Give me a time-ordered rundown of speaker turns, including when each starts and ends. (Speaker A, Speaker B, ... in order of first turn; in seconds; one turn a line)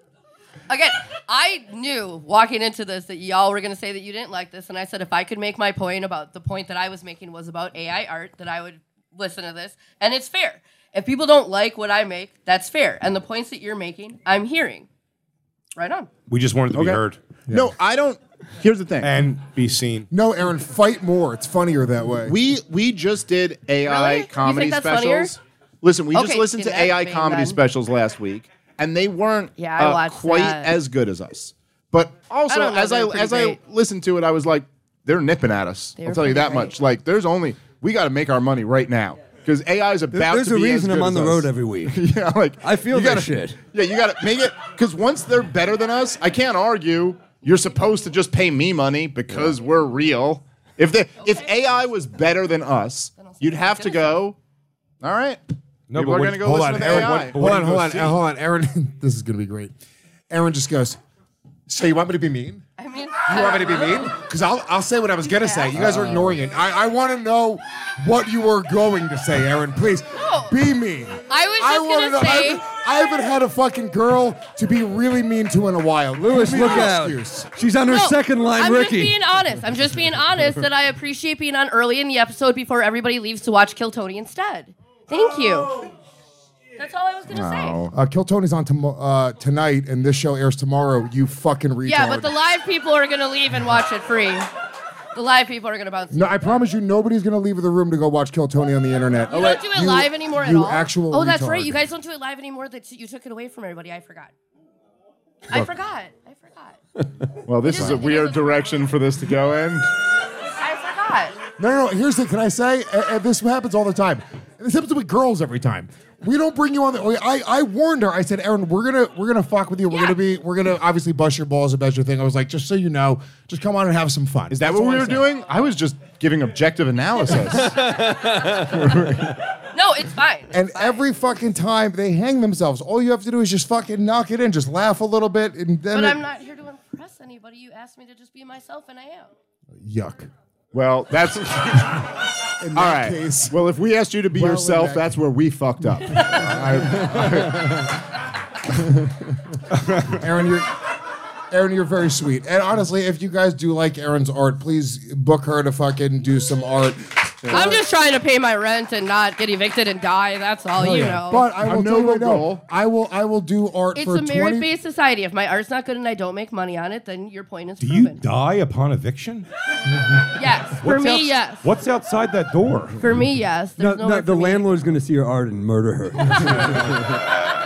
Speaker A: 0.7-14.9
Speaker A: 15.8-16.1
Speaker B: 16.3-17.2
Speaker C: 16.7-19.1
Speaker B: 19.0-20.1
Speaker D: 20.1-22.4
Speaker C: 22.3-54.4
Speaker A: 23.9-25.4
Speaker A: 26.1-27.6
Speaker A: 29.6-30.8
Speaker A: 32.5-33.6
Speaker A: 36.0-36.7
Speaker E: 40.1-42.0
Speaker E: 42.6-43.6
Speaker A: 51.2-51.5
Speaker A: 53.2-54.3
Speaker C: 55.0-55.4
Speaker B: 55.9-58.2
Speaker C: 56.0-57.4
Speaker D: 56.4-59.7
Speaker D: 60.3-61.0
Speaker D: 61.7-62.6
Speaker A: 62.8-64.1
Speaker D: 63.3-77.5
Speaker A: 65.2-65.8
Speaker E: 65.8-66.4
Speaker A: 70.2-70.6
Speaker A: 71.3-72.7
Speaker E: 76.2-79.2
Speaker A: 77.9-85.9
Speaker A: 86.8-87.9
Speaker C: 87.3-87.9
Speaker D: 87.9-92.3
Speaker A: 91.8-94.5
Speaker A: 95.1-96.6
Speaker D: 96.1-101.9
Speaker A: 99.3-104.3
Speaker A: 105.5-106.8
Speaker C: 107.5-109.9
Speaker A: 107.6-108.6
Speaker A: 110.6-111.4
Speaker D: 111.6-125.3
Speaker A: 119.9-120.2
Speaker C: 124.5-127.8
Speaker E: 127.8-128.8
Speaker A: 129.7-131.0
Speaker D: 130.5-136.2
Speaker A: 135.9-139.3
Speaker D: 139.8-140.3
Speaker C: 140.7-142.1
Speaker D: 142.6-143.6
Speaker C: 142.8-147.9
Speaker D: 144.3-145.2
Speaker D: 148.7-149.3
Speaker D: 150.1-150.7
Speaker D: 151.5-157.8
Speaker C: 157.5-157.8
Speaker A: 157.5-161.5
Speaker D: 160.8-164.7
Speaker C: 161.6-162.6
Speaker A: 163.9-168.2
Speaker B: 167.8-169.5
Speaker A: 170.3-171.7
Speaker B: 170.8-173.1
Speaker A: 173.0-174.8
Speaker E: 173.8-177.2